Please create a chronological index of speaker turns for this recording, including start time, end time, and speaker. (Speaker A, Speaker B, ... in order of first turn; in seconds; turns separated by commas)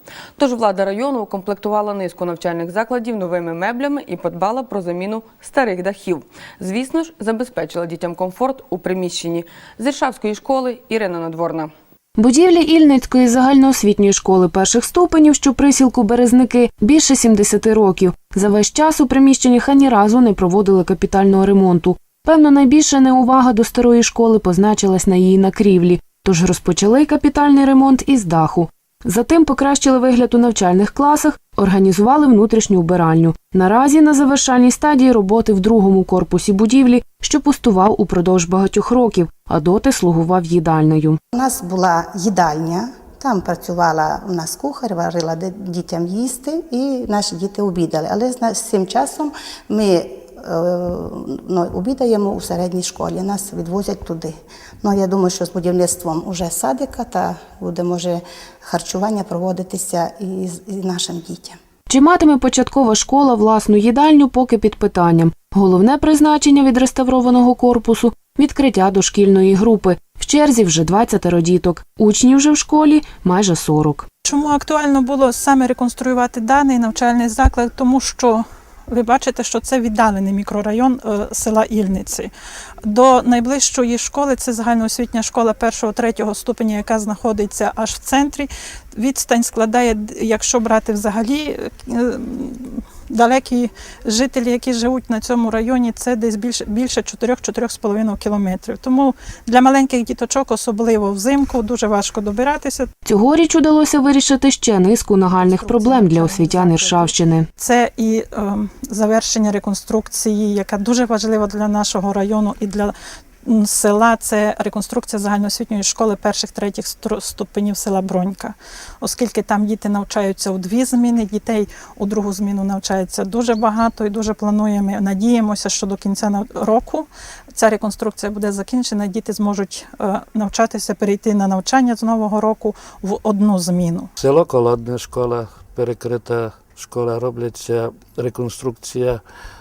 Speaker A: 0.4-11.7, Speaker B: 12.2-41.2, Speaker C: 41.3-61.6, Speaker B: 61.9-74.1, Speaker D: 74.2-82.3, Speaker D: 82.8-102.9, Speaker B: 103.0-107.5, Speaker C: 105.3-107.1, Speaker D: 107.6-134.1, Speaker E: 134.2-139.2